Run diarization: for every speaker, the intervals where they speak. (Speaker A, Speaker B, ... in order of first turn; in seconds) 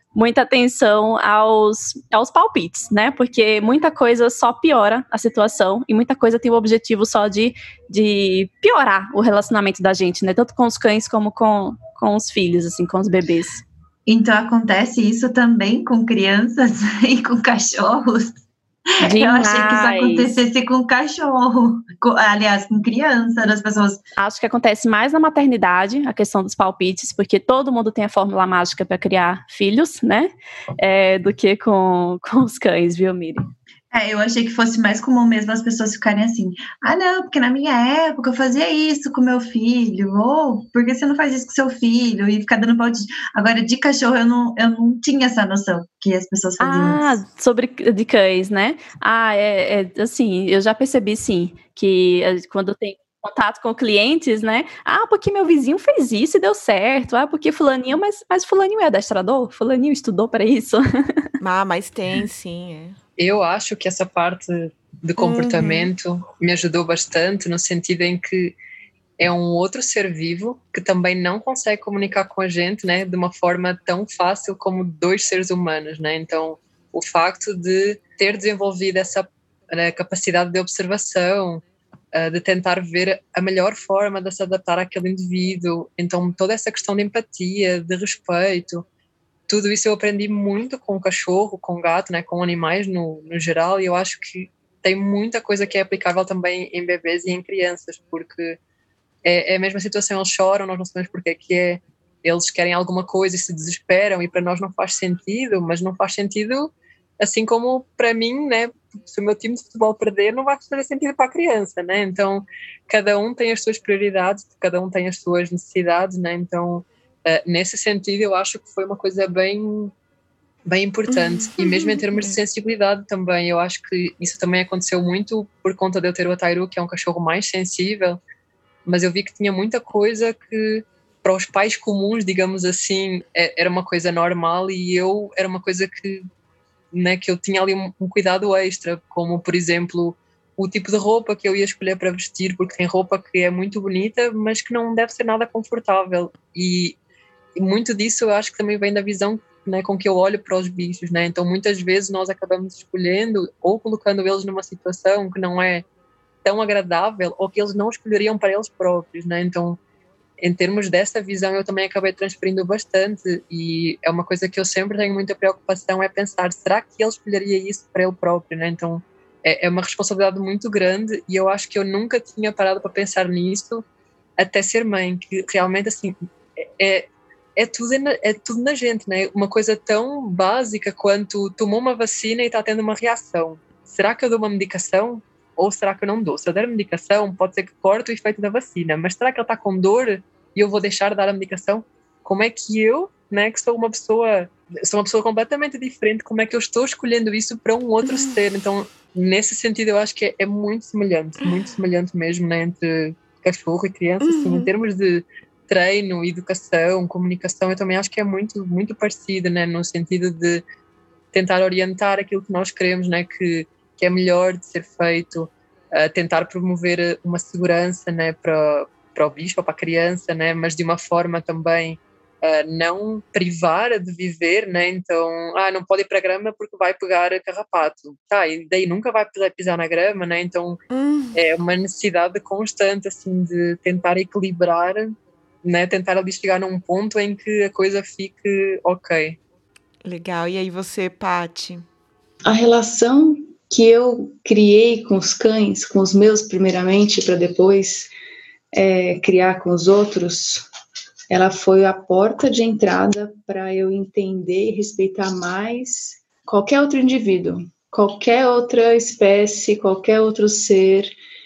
Speaker A: 0.1-13.6, 19.0-20.4, 24.2-33.5, 46.6-61.2
Speaker B: 14.1-18.4, 19.1-24.0, 33.9-47.1
Speaker C: 61.4-63.0, 65.2-65.9, 121.1-122.4, 204.2-204.7, 230.9-231.4, 240.0-241.8
Speaker D: 63.2-68.5, 69.2-88.8, 89.5-98.6, 99.2-119.9, 120.7-128.2, 128.8-136.3, 136.9-147.0, 147.6-155.8, 156.4-159.8, 160.4-173.8, 174.4-176.1, 176.8-210.6, 211.3-230.8, 231.3-235.1, 235.6-239.4
Speaker E: 242.4-248.1, 248.7-250.6, 251.3-261.1